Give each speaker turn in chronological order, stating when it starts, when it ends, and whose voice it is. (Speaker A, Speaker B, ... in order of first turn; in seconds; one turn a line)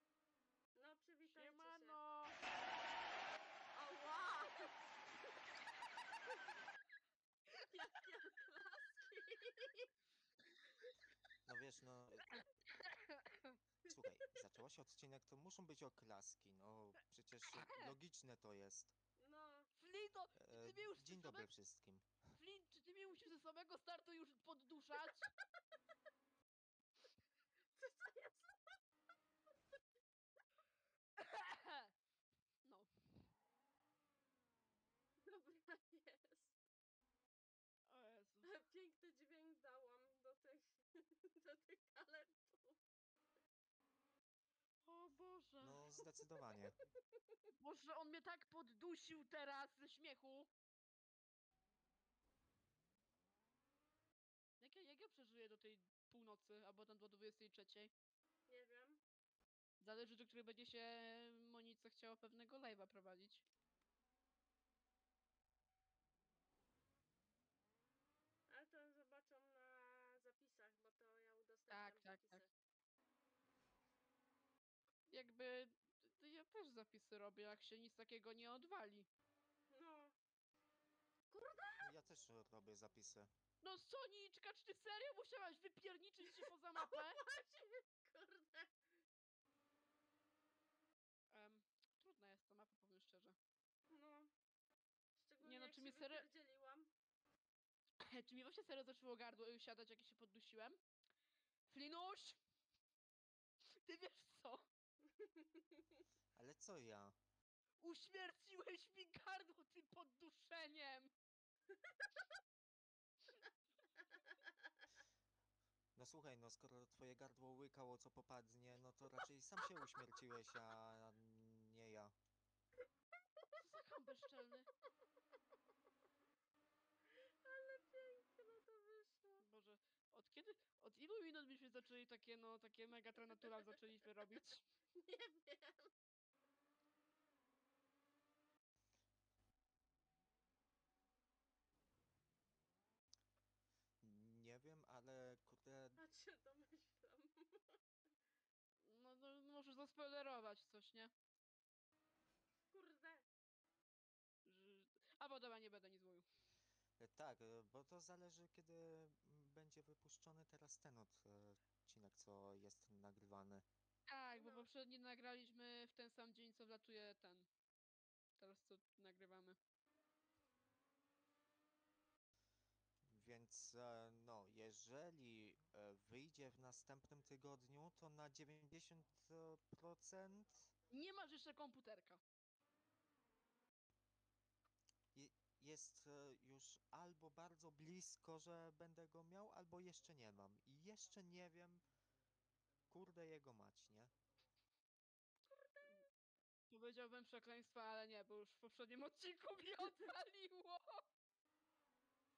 Speaker A: 0.8-2.0
Speaker B: 1.3-2.4
Speaker A: 3.7-4.8
Speaker A: 7.6-9.9
Speaker C: 11.4-12.4
Speaker B: 12.7-13.6
Speaker C: 13.9-18.9
Speaker B: 17.4-17.9
Speaker A: 19.2-19.7
Speaker B: 19.8-21.5
Speaker C: 20.4-22.3
Speaker B: 22.4-25.3
Speaker A: 27.7-28.6
Speaker B: 31.2-31.9
Speaker A: 35.2-36.5
Speaker B: 37.9-38.5
Speaker A: 38.4-42.8
Speaker B: 44.9-45.8
Speaker C: 45.6-46.8
Speaker A: 46.0-47.2
Speaker B: 47.6-50.5
Speaker B: 54.6-57.9
Speaker A: 58.5-59.0
Speaker B: 59.8-63.4
Speaker A: 68.5-72.5
Speaker B: 71.7-72.4
Speaker B: 75.1-79.1
Speaker A: 79.7-80.1
Speaker A: 81.3-81.9
Speaker C: 81.8-83.3
Speaker B: 83.6-87.2
Speaker A: 86.4-88.7
Speaker B: 91.3-93.3
Speaker A: 93.9-94.3
Speaker A: 95.2-96.9
Speaker B: 95.4-96.3
Speaker B: 98.0-100.8
Speaker B: 101.7-102.4
Speaker B: 103.8-104.7
Speaker A: 105.0-106.0
Speaker C: 106.3-107.2
Speaker B: 107.8-111.1
Speaker C: 116.0-122.1
Speaker B: 123.6-124.7
Speaker A: 127.1-129.4
Speaker B: 129.4-134.7
Speaker A: 133.2-134.3
Speaker A: 134.9-135.9
Speaker C: 144.0-146.0
Speaker A: 146.0-147.8
Speaker B: 148.8-151.1
Speaker A: 152.7-153.2
Speaker B: 154.4-156.2
Speaker C: 157.0-163.6
Speaker B: 164.1-167.5
Speaker A: 164.3-164.7
Speaker B: 168.4-169.6
Speaker C: 173.1-180.7
Speaker B: 180.9-182.2
Speaker C: 185.1-191.8
Speaker C: 192.9-194.1
Speaker A: 195.6-195.9
Speaker B: 196.7-201.1